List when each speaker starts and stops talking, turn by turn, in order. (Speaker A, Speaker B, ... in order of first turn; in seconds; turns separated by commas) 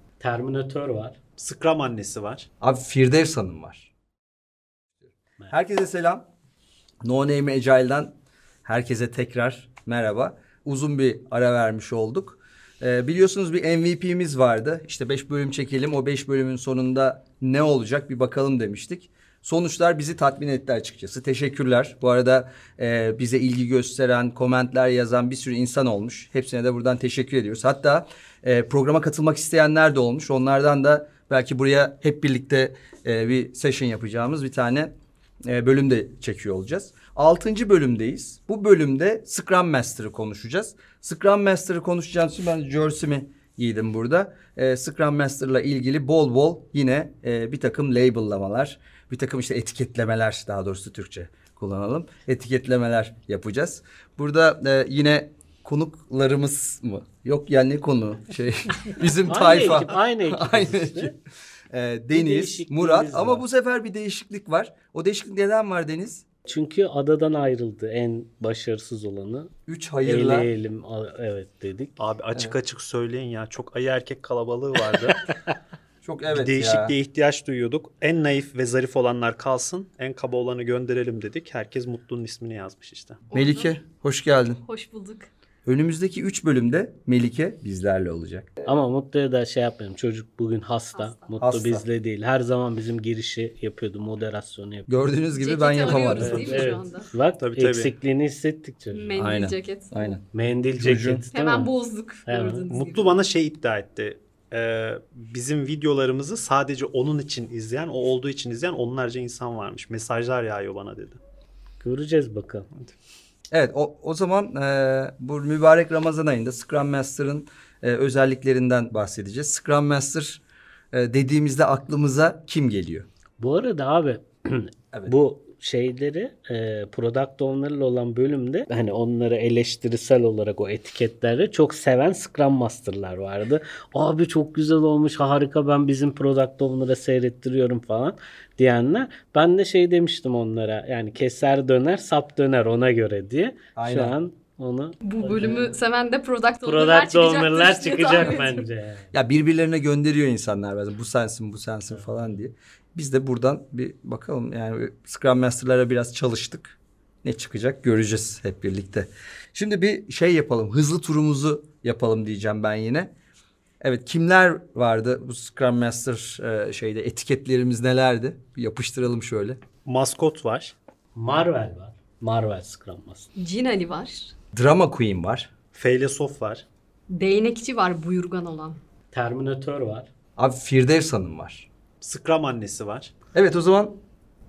Speaker A: 0.2-1.2, Speaker B: 1.4-2.5, Speaker C: 2.6-3.9, Speaker C: 5.5-6.3, Speaker C: 7.0-8.1, Speaker C: 8.6-34.9, Speaker C: 35.4-61.1, Speaker A: 59.3-61.1, Speaker C: 61.7-66.2, Speaker A: 62.1-63.4, Speaker A: 66.4-69.5, Speaker C: 69.7-70.5, Speaker A: 70.0-72.0, Speaker B: 72.0-75.2, Speaker C: 76.0-76.9, Speaker B: 76.3-83.2, Speaker D: 83.3-83.7, Speaker C: 83.3-84.6, Speaker D: 84.6-85.3, Speaker C: 85.6-88.7, Speaker A: 88.7-94.9, Speaker D: 91.0-91.3, Speaker C: 91.4-91.8, Speaker C: 94.9-96.7, Speaker D: 95.4-97.1, Speaker A: 96.1-99.2, Speaker B: 97.4-97.9, Speaker D: 98.9-100.1, Speaker C: 99.1-100.2, Speaker A: 100.3-101.7, Speaker C: 100.8-101.2, Speaker D: 101.3-103.2, Speaker A: 102.3-102.7, Speaker B: 102.7-111.2, Speaker A: 111.8-112.7, Speaker C: 113.5-123.1, Speaker A: 123.4-145.8, Speaker C: 143.8-144.1, Speaker D: 145.0-148.6, Speaker A: 146.6-149.1, Speaker C: 149.1-163.1, Speaker C: 163.8-169.6, Speaker B: 169.8-170.7, Speaker A: 171.2-173.3, Speaker D: 173.3-174.3, Speaker C: 174.5-175.5, Speaker B: 175.7-176.6, Speaker D: 177.1-178.8, Speaker A: 179.1-180.1, Speaker C: 180.4-181.7, Speaker B: 182.0-183.1, Speaker C: 183.3-184.0